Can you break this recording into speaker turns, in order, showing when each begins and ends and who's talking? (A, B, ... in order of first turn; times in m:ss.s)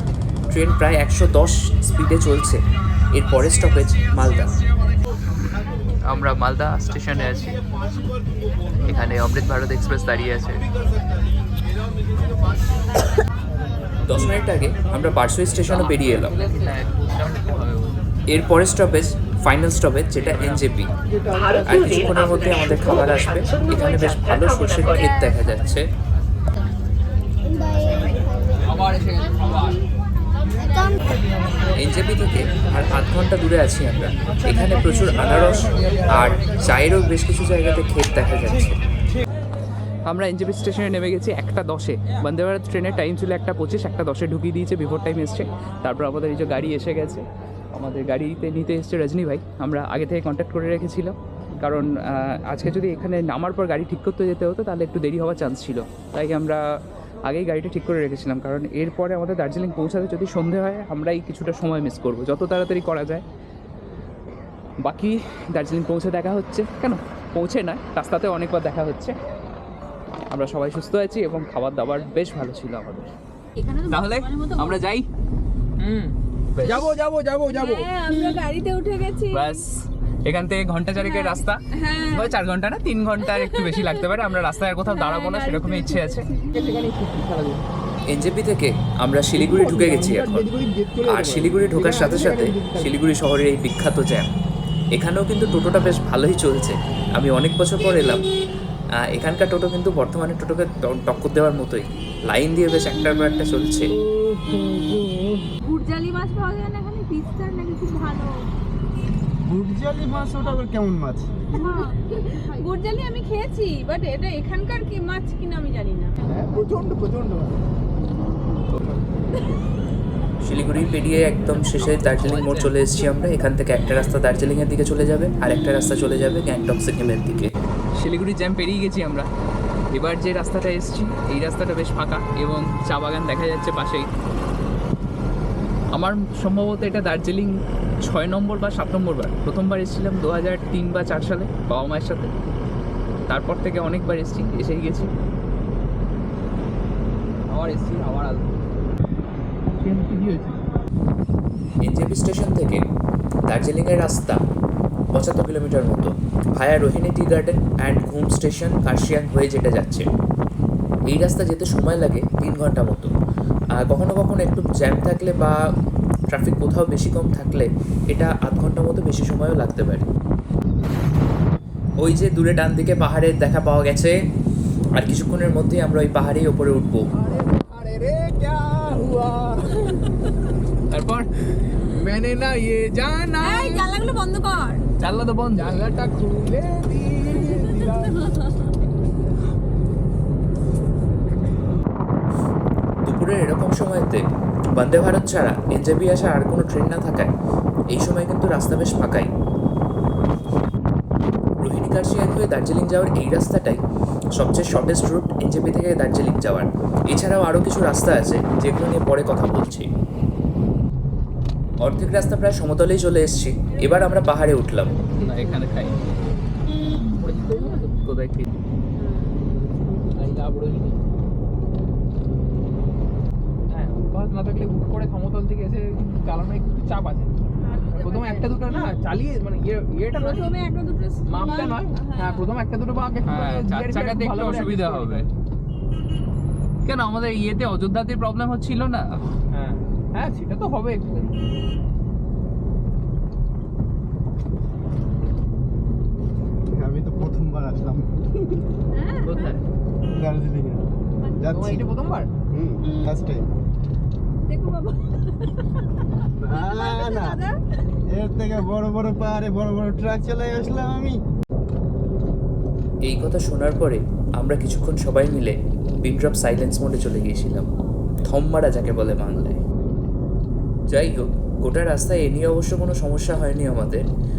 0:00.5-0:04.6 A
0:06.0-0:07.6 A
0:08.8-0:10.6 A
0:14.0-0:16.4 A
0:16.1-0:18.0 B
0:18.3-0:20.9 A
0:21.6-0:25.8 A
0:28.6-0:29.9 B
0:31.7-0:38.8 A
0:40.0-1:03.2 A
1:04.8-1:09.1 A
1:10.3-1:13.1 A
1:13.6-1:14.8 C
1:13.9-1:15.1 A
1:15.8-1:17.9 B
1:16.5-1:16.8 A
1:17.5-1:19.6 C
1:19.3-1:26.2 A
1:20.9-1:22.4 C
1:23.2-1:26.6 C
1:26.5-1:27.6 B
1:28.1-1:30.5 A
1:29.3-1:32.9 B
1:31.0-1:34.3 A
1:34.9-1:38.2 A
1:39.1-1:43.9 A
1:44.0-1:45.4 D
1:45.6-1:48.5 C
1:49.4-1:51.3 D
1:51.5-1:56.1 C
1:56.2-1:57.6 B
2:00.4-2:07.5 A
2:08.0-2:09.2 A
2:09.9-2:14.1 A
2:16.0-2:17.5 A
2:18.1-2:22.3 A
2:23.3-2:25.1 A
2:27.5-2:28.6 B
2:29.7-2:30.6 B
2:31.8-2:32.8 A
2:33.5-2:34.4 A
2:35.1-2:40.1 A
2:41.1-2:43.1 A
2:43.8-2:45.6 A
2:46.3-2:50.1 A
2:52.0-2:54.1 A
2:55.0-2:57.0 A
2:57.1-3:00.2 B
3:00.9-3:01.3 A
3:01.8-3:04.0 B
3:03.4-3:04.8 C
3:05.0-3:05.8 A
3:05.5-3:08.4 B
3:13.0-3:17.3 A
3:17.9-3:19.3 A
3:21.6-3:23.8 A
3:24.4-3:29.9 A
3:31.8-3:35.0 A
3:33.7-3:34.1 C
3:35.1-3:36.0 B
3:37.2-3:38.1 B
3:37.4-3:37.9 C
3:38.1-3:38.6 A
3:39.0-3:39.4 C
3:39.6-3:41.0 B
3:43.7-3:47.3 B
3:47.6-3:49.0 C
3:47.9-3:50.6 B
3:50.1-3:52.5 C
3:51.2-3:55.3 B
3:56.8-3:59.1 A
3:59.5-4:01.4 B
4:06.6-4:08.6 D
4:08.9-4:09.6 C
4:09.2-4:09.6 A
4:10.1-4:10.8 D
4:11.2-4:11.6 C
4:11.4-4:11.8 D
4:11.4-4:12.3 B
4:12.5-4:13.5 D
4:14.4-4:17.6 C
4:16.3-4:17.4 D
4:18.0-4:21.2 D
4:23.0-4:27.7 A
4:28.2-4:29.6 A
4:30.9-4:34.0 A